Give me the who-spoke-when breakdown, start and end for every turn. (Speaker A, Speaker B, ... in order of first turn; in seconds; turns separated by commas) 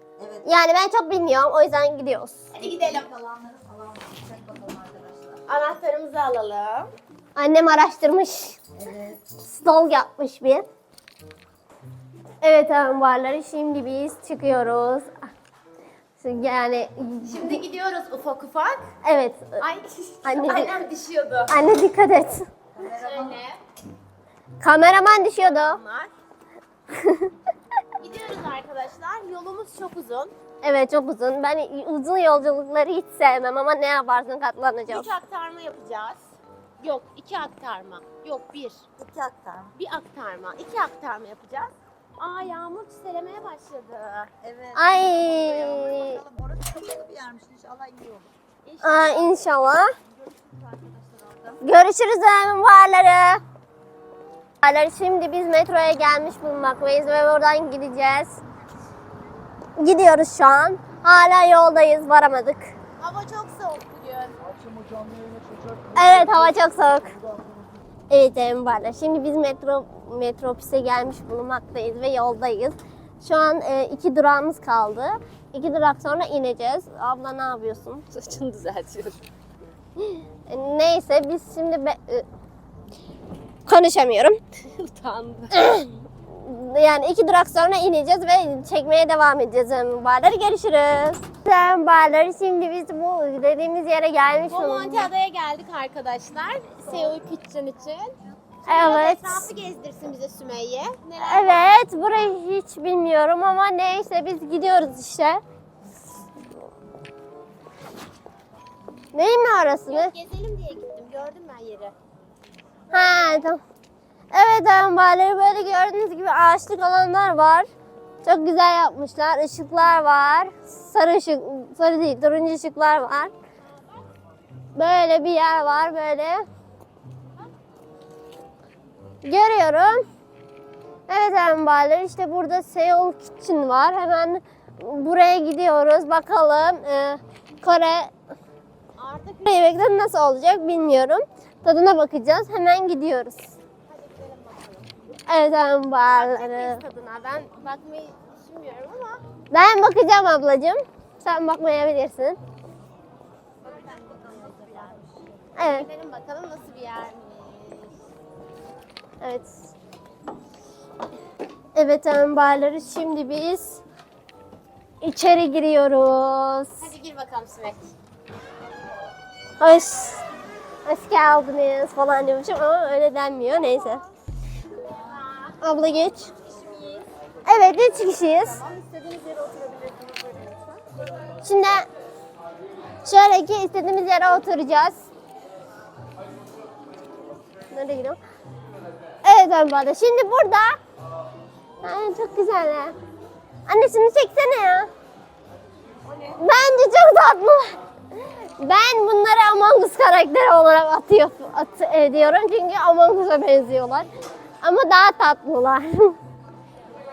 Speaker A: 0.2-0.5, Speaker B: 0.5-2.4, Speaker C: 2.5-3.1, Speaker A: 2.9-5.4, Speaker C: 5.5-6.9, Speaker B: 7.4-8.6, Speaker A: 8.8-9.2, Speaker B: 9.5-10.7, Speaker B: 12.4-15.1, Speaker B: 16.2-17.6, Speaker C: 17.2-18.9, Speaker B: 19.0-19.6, Speaker C: 19.6-21.5, Speaker B: 20.2-20.8, Speaker B: 21.5-22.5, Speaker A: 22.8-23.4, Speaker C: 22.9-23.6, Speaker B: 24.6-25.8, Speaker C: 25.4-26.1, Speaker B: 26.9-27.3, Speaker C: 28.0-30.3, Speaker B: 30.6-35.1, Speaker C: 34.9-36.2, Speaker C: 36.8-38.8, Speaker A: 39.0-39.8, Speaker C: 39.8-44.3, Speaker A: 44.4-48.3, Speaker B: 44.8-46.2, Speaker C: 48.7-49.4, Speaker B: 48.8-49.9, Speaker A: 50.0-51.6, Speaker B: 51.6-53.4, Speaker B: 54.6-58.4, Speaker B: 59.8-62.7, Speaker C: 63.0-64.4, Speaker A: 65.0-65.3, Speaker B: 65.9-67.2, Speaker B: 68.1-78.0, Speaker C: 78.1-79.2, Speaker B: 80.0-82.3, Speaker B: 83.7-84.4, Speaker C: 84.6-85.5, Speaker B: 85.5-95.1, Speaker C: 94.5-101.7, Speaker B: 98.7-99.5, Speaker B: 101.2-105.4, Speaker B: 109.1-110.1, Speaker C: 109.9-112.0, Speaker B: 112.9-113.6, Speaker B: 114.3-117.7, Speaker B: 118.2-123.3, Speaker C: 123.6-124.1, Speaker B: 124.8-126.5, Speaker B: 129.2-130.1, Speaker B: 131.1-138.1, Speaker C: 139.0-139.5, Speaker B: 139.4-143.6, Speaker C: 143.9-145.0, Speaker B: 145.3-146.8, Speaker C: 146.1-149.2, Speaker B: 149.5-152.4, Speaker C: 153.6-158.0, Speaker A: 153.7-155.1, Speaker B: 155.6-155.9, Speaker B: 159.2-159.7, Speaker B: 161.8-163.8, Speaker B: 165.0-166.9, Speaker C: 166.8-167.9, Speaker B: 169.6-170.2, Speaker B: 170.9-174.0, Speaker C: 175.0-175.6, Speaker B: 175.6-176.3, Speaker C: 176.5-177.1, Speaker B: 177.5-178.6, Speaker A: 178.4-180.8, Speaker B: 181.4-181.9, Speaker B: 183.0-185.1, Speaker B: 187.7-188.2, Speaker B: 189.2-190.8, Speaker B: 191.8-192.9, Speaker B: 193.7-194.9, Speaker A: 196.1-196.3, Speaker B: 196.4-197.8, Speaker B: 198.6-204.1, Speaker B: 204.6-206.2